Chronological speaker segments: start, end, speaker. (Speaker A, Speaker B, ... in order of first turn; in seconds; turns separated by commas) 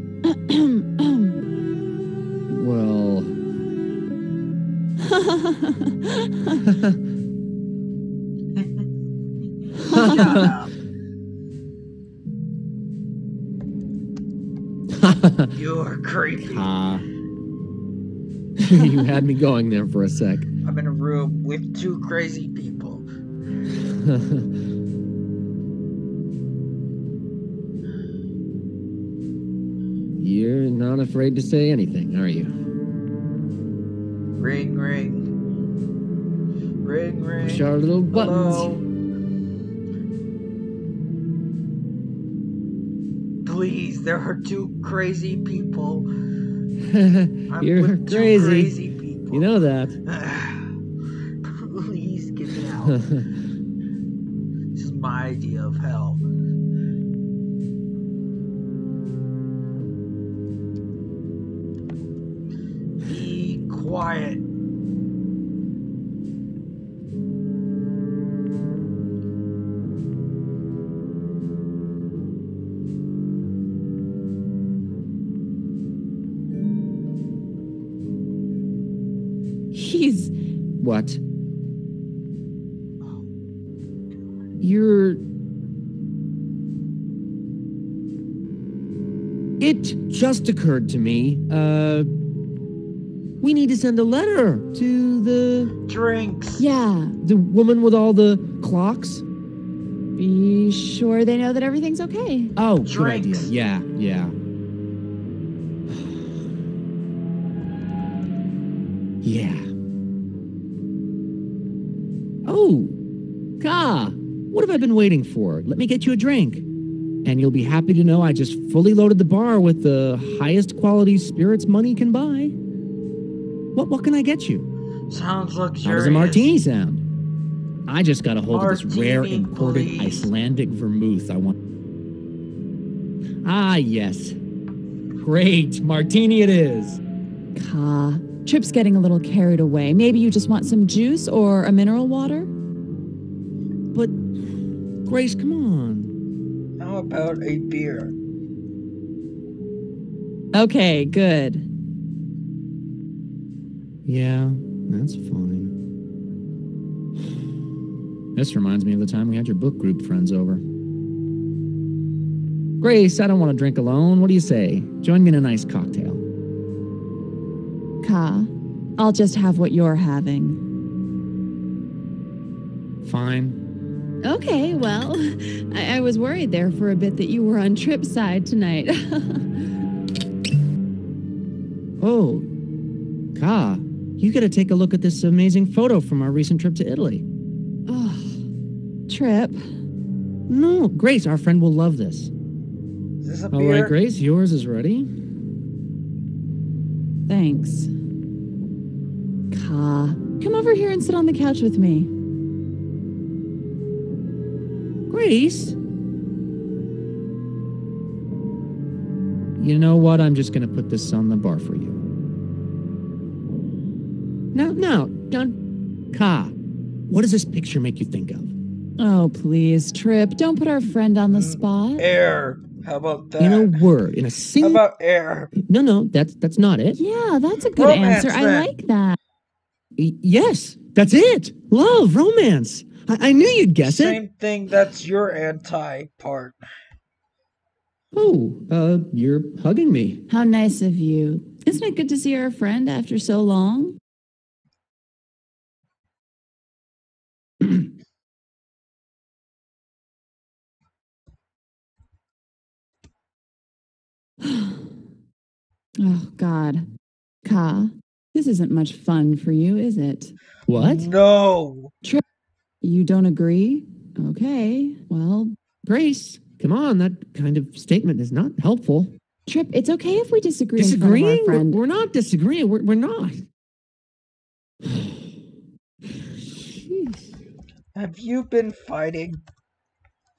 Speaker A: 0.2-1.4, Speaker B: 2.5-3.4, Speaker A: 5.0-6.6, Speaker B: 6.6-7.0, Speaker C: 8.6-8.8, Speaker C: 9.8-10.7, Speaker A: 9.8-10.4, Speaker B: 9.9-10.6, Speaker B: 14.9-15.5, Speaker C: 15.5-16.7, Speaker B: 16.4-17.1, Speaker B: 18.6-20.5, Speaker A: 18.7-19.2, Speaker C: 20.6-23.1, Speaker B: 23.7-24.6, Speaker B: 30.2-32.5, Speaker C: 34.4-35.3, Speaker C: 36.8-38.8, Speaker B: 37.4-38.7, Speaker C: 43.4-46.1, Speaker B: 46.8-48.8, Speaker C: 47.5-50.7, Speaker B: 49.3-50.0, Speaker C: 51.4-53.0, Speaker B: 52.8-53.3, Speaker C: 54.7-56.2, Speaker C: 63.0-64.4, Speaker A: 79.7-80.3, Speaker B: 80.8-81.2, Speaker B: 84.6-85.2, Speaker B: 89.6-92.1, Speaker B: 93.4-95.7, Speaker C: 95.9-96.6, Speaker A: 96.6-97.2, Speaker B: 97.2-99.2, Speaker A: 100.2-102.5, Speaker B: 102.6-104.3, Speaker C: 102.8-103.5, Speaker B: 105.9-106.4, Speaker B: 109.2-109.7, Speaker B: 112.4-112.9, Speaker B: 113.6-116.7, Speaker B: 117.2-122.5, Speaker B: 123.7-124.7, Speaker C: 125.1-126.5, Speaker B: 125.8-127.0, Speaker B: 127.9-131.5, Speaker C: 128.5-130.3, Speaker B: 133.4-134.4, Speaker B: 135.2-137.0, Speaker A: 137.5-142.5, Speaker B: 143.9-144.2, Speaker B: 145.0-146.1, Speaker C: 146.8-148.1, Speaker A: 150.5-151.7, Speaker B: 154.1-155.7, Speaker B: 158.3-160.6, Speaker B: 162.8-166.2, Speaker A: 168.0-170.6, Speaker B: 173.0-173.6, Speaker A: 174.2-179.6, Speaker B: 182.0-182.5, Speaker B: 183.3-187.2, Speaker A: 187.9-188.4, Speaker A: 189.1-189.6, Speaker B: 190.5-192.3, Speaker C: 193.2-193.9, Speaker B: 193.5-195.1, Speaker A: 197.3-197.9, Speaker A: 199.5-202.1, Speaker B: 205.1-205.8, Speaker B: 209.6-212.0, Speaker B: 214.5-215.5, Speaker B: 216.1-216.5, Speaker B: 217.1-218.5, Speaker A: 219.0-222.0, Speaker C: 221.3-223.9, Speaker B: 223.4-224.8, Speaker C: 224.6-225.6, Speaker B: 225.6-227.0, Speaker A: 226.9-229.2, Speaker C: 227.8-228.7, Speaker B: 230.0-234.2, Speaker C: 233.8-236.6, Speaker B: 238.1-240.2, Speaker A: 240.3-244.0, Speaker A: 254.4-254.8, Speaker A: 256.0-256.8, Speaker A: 257.4-260.3, Speaker B: 260.7-261.1, Speaker C: 260.7-261.9, Speaker A: 262.8-265.5, Speaker B: 265.8-269.1, Speaker A: 269.5-271.8, Speaker B: 270.8-273.4, Speaker B: 274.8-275.3, Speaker B: 276.3-277.3, Speaker C: 277.9-279.4